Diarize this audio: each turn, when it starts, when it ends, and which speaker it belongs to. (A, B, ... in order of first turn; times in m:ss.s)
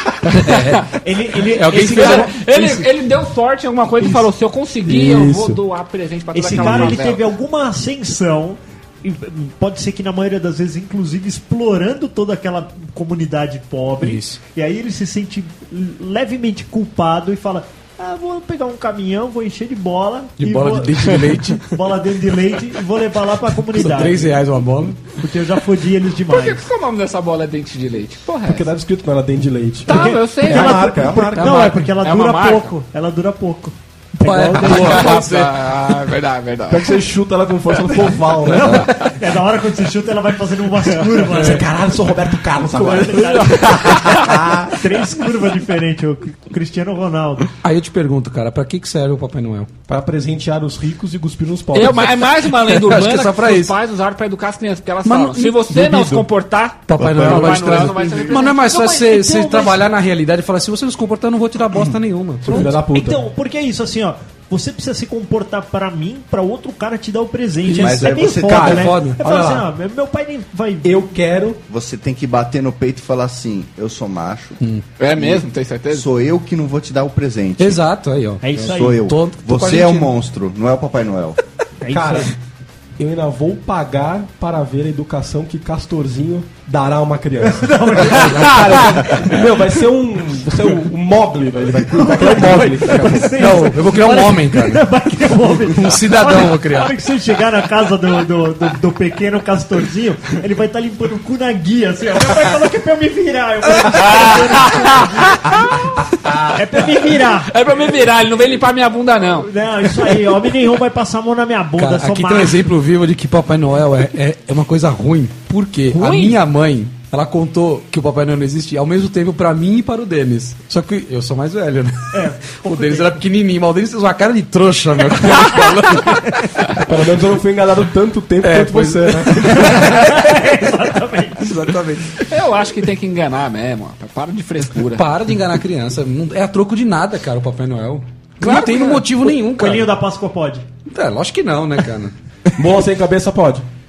0:00.2-0:00.9 A
0:00.3-0:00.9 B
0:01.0-0:02.9 C
0:01.5-0:07.3 A
0:01.5-0:02.3 B
0:04.8-0:05.6 D
0:06.3-0:24.4 C
0:06.6-0:07.0 D
0:14.0-0:14.4 B
0:20.4-0:21.7 B
0:23.7-0:25.1 B
0:25.2-0:26.6 C
0:26.3-0:28.7 A
0:28.5-0:31.8 D
0:29.9-0:32.7 A
0:29.9-0:35.2 C
0:34.2-0:35.7 B
0:34.6-0:37.0 A
0:36.7-0:39.0 D
0:38.4-0:41.7 C
0:38.7-0:39.1 A
0:41.2-0:44.8 D
0:42.6-0:47.5 C
0:42.9-0:44.6 A
0:47.6-0:49.7 B
0:49.9-0:52.3 D
0:51.7-0:58.8 A
0:52.7-0:53.7 B
0:55.0-0:55.8 B
0:55.7-0:56.3 D
0:56.9-1:02.7 B
0:57.0-0:58.0 D
0:58.1-0:59.8 C
1:02.4-1:03.2 D
1:02.5-1:10.9 C
1:07.7-1:09.7 D
1:07.7-1:09.0 E
1:08.7-1:09.2 B
1:10.8-1:11.6 D
1:11.7-1:14.6 E
1:15.0-1:16.1 A
1:15.2-1:17.9 E
1:17.6-1:20.1 B
1:18.4-1:19.0 C
1:18.5-1:21.4 E
1:21.8-1:22.4 C
1:21.9-1:22.4 D
1:23.0-1:33.3 D
1:27.4-1:29.4 C
1:28.1-1:29.0 B
1:31.9-1:45.8 C
1:33.1-1:34.9 B
1:35.5-1:37.0 B
1:43.9-1:45.8 A
1:46.4-1:47.5 C
1:47.4-1:49.5 A
1:49.4-1:52.7 C
1:51.8-2:06.7 B
1:55.9-1:56.4 A
2:02.1-2:03.2 C
2:06.8-2:09.6 D
2:08.4-2:10.2 B
2:09.3-2:11.7 C
2:11.4-2:12.3 B
2:12.1-2:15.3 A
2:14.9-2:19.9 B
2:18.4-2:19.1 A
2:19.3-2:20.7 C
2:20.9-2:22.1 B
2:22.6-2:23.7 D